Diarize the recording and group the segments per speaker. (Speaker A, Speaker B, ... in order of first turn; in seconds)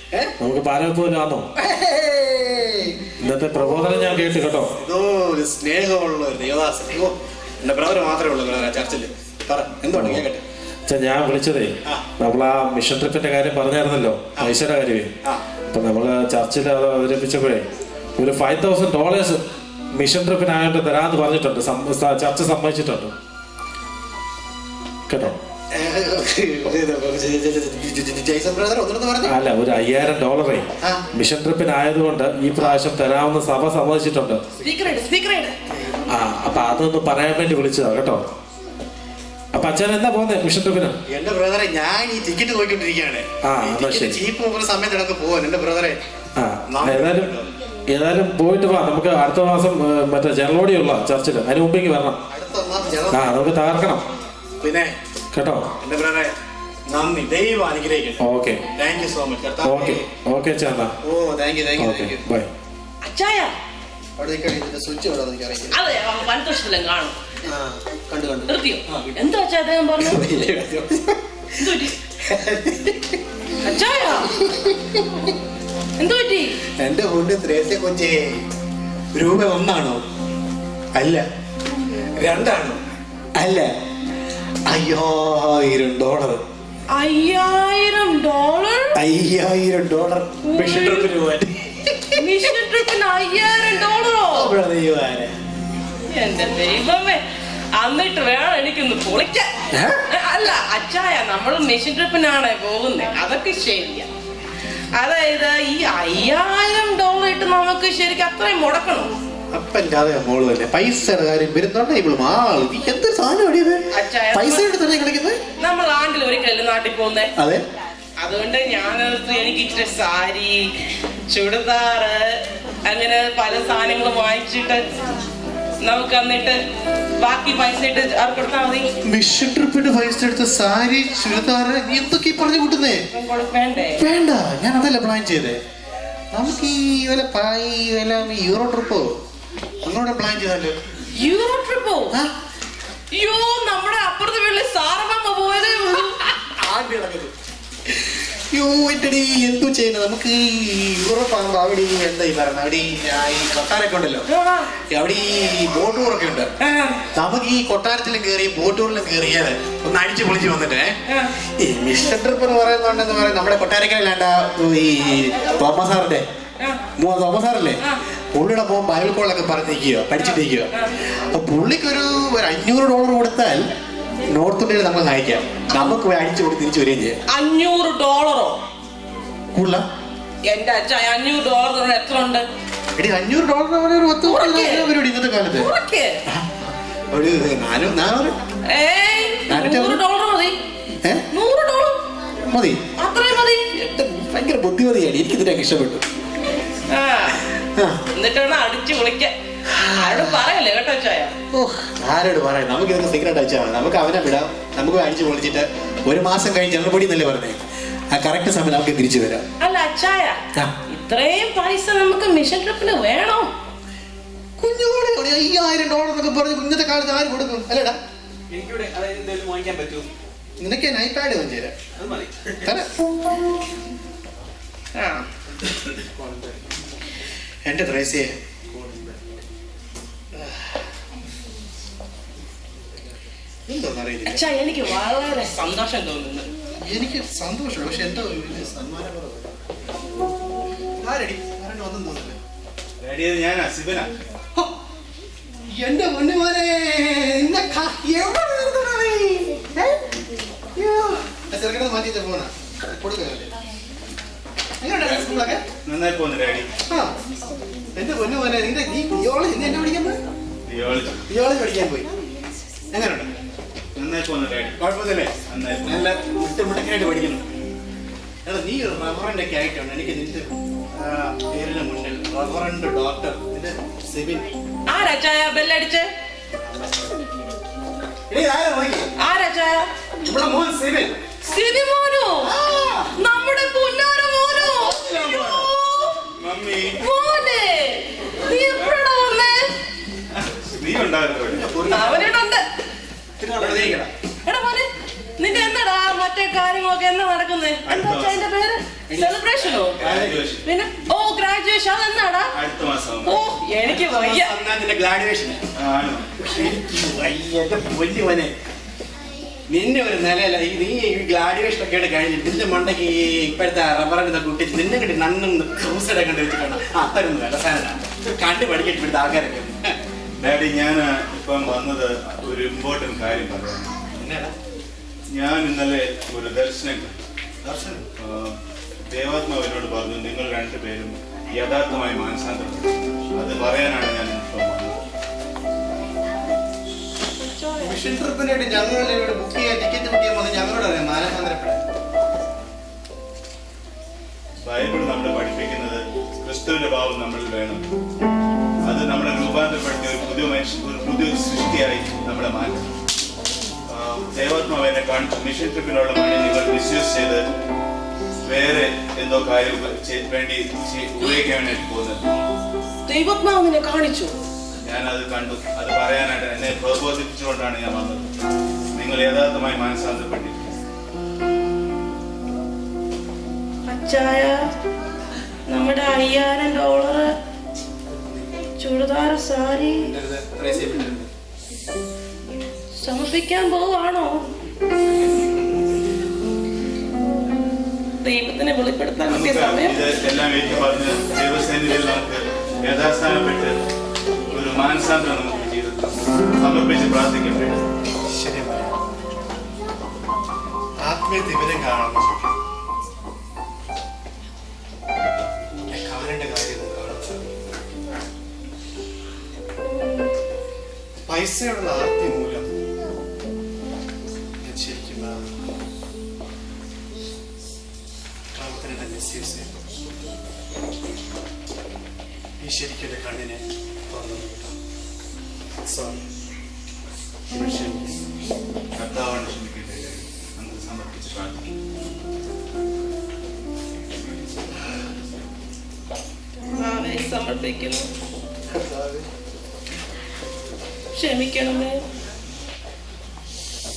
Speaker A: 0.4-1.4, 3.2-4.7, 9.9-10.2, 10.9-15.1, 15.7-17.7, 18.2-19.4, 19.9-23.1, 25.1-25.4, 29.2-34.4, 36.1-38.2, 39.5-41.0, 43.4-44.2, 46.4-47.3, 47.9-52.2, 53.1-54.0, 55.3-55.7, 58.2-58.6, 59.6-60.9, 61.8-62.5
Speaker B: 1.6-4.2, 4.8-10.4, 25.7-29.3, 35.7-36.0, 41.1-46.0, 46.7-47.5, 52.3-53.5, 54.6-54.9, 55.8-56.3, 56.9-58.2, 58.8-60.0, 61.0-62.2, 64.2-65.7, 67.5-69.1, 70.0-71.2, 72.2-73.2, 74.4-75.0, 76.8-78.4, 79.1-80.0, 80.9-81.2, 82.2-82.8, 83.4-83.7, 84.7-86.4, 89.0-92.2, 94.3-95.3, 99.7-100.0, 109.5-113.8, 114.3-115.4, 129.0-133.0, 134.0-135.6, 136.3-139.2, 139.8-140.7, 146.2-147.3, 147.9-154.2, 154.9-156.5, 157.1-161.0, 161.6-166.2, 167.0-167.8, 168.3-170.7, 171.3-173.6, 174.3-177.2, 179.5-179.8, 182.9-185.7, 186.3-188.4, 189.5-190.0, 192.4-192.8, 193.7-196.0, 199.7-200.4, 201.5-207.6, 208.1-209.4, 214.6-218.0, 220.6-221.7, 222.6-222.9, 226.2-226.5, 227.6-228.4, 233.7-234.4, 236.8-239.6, 241.0-242.4, 245.7-250.0, 250.8-253.5, 254.8-255.6, 257.9-260.2, 261.3-262.1, 262.9-263.3, 264.8-265.4, 265.9-267.4, 268.4-274.5, 276.6-277.2, 278.3-279.1, 280.2-281.1, 282.4-283.1, 284.9-285.6, 291.5-292.3, 293.4-294.1, 299.1-300.5, 303.8-305.6, 306.4-308.5, 309.7-320.0, 324.1-324.5, 327.6-328.0, 337.8-341.8, 378.1-378.5, 380.0-381.3, 398.3-398.9, 401.0-402.5, 405.9-407.5, 411.3-412.7, 414.6-415.4, 418.5-419.7, 422.6-424.7, 425.9-426.2, 427.5-428.1, 438.7-439.3
Speaker C: 34.6-35.5, 63.0-63.5, 65.7-67.2, 68.5-70.2, 71.6-71.9, 73.6-74.3, 76.0-76.5, 86.9-89.0, 90.5-91.1, 92.2-94.5, 96.1-97.2, 97.8-99.5, 100.1-104.1, 104.9-109.1, 113.9-114.6, 115.6-117.3, 118.2-120.7, 121.3-124.8, 125.8-126.6, 127.2-128.9, 133.1-134.0, 141.2-142.2, 143.1-146.2, 154.3-154.7, 156.6-157.0, 170.2-170.9, 177.3-178.6, 180.5-182.4, 184.3-184.9, 185.6-186.2, 188.7-190.6, 191.3-192.0, 193.0-193.7, 196.9-197.4, 198.1-199.3, 199.9-201.3, 209.6-210.4, 210.9-213.5, 225.0-225.2, 234.3-236.5, 274.9-276.1, 279.2-279.9, 281.5-282.5, 283.2-286.2, 286.9-289.7, 291.9-292.6, 294.4-300.0, 300.6-302.5, 303.2-304.5, 337.4-338.0, 363.1-364.4, 373.9-374.6, 375.7-377.3, 378.8-380.1, 383.0-384.5, 388.2-390.0, 436.7-438.1, 441.1-442.0
Speaker D: 218.5-220.1, 222.0-222.7, 228.7-229.3, 293.7-294.0
Speaker E: 243.0-244.1, 255.8-256.7, 260.7-261.2, 264.0-264.8, 265.5-266.0, 286.4-287.0, 290.7-291.8, 297.9-298.4, 299.9-300.6, 302.5-303.4, 305.8-306.3, 320.4-323.8, 325.3-327.1, 328.2-328.6, 329.1-335.0, 344.6-347.8, 348.8-352.9, 353.9-357.4, 358.5-362.3, 364.9-368.3, 368.9-370.8, 389.3-393.8, 394.5-397.8, 429.0-431.7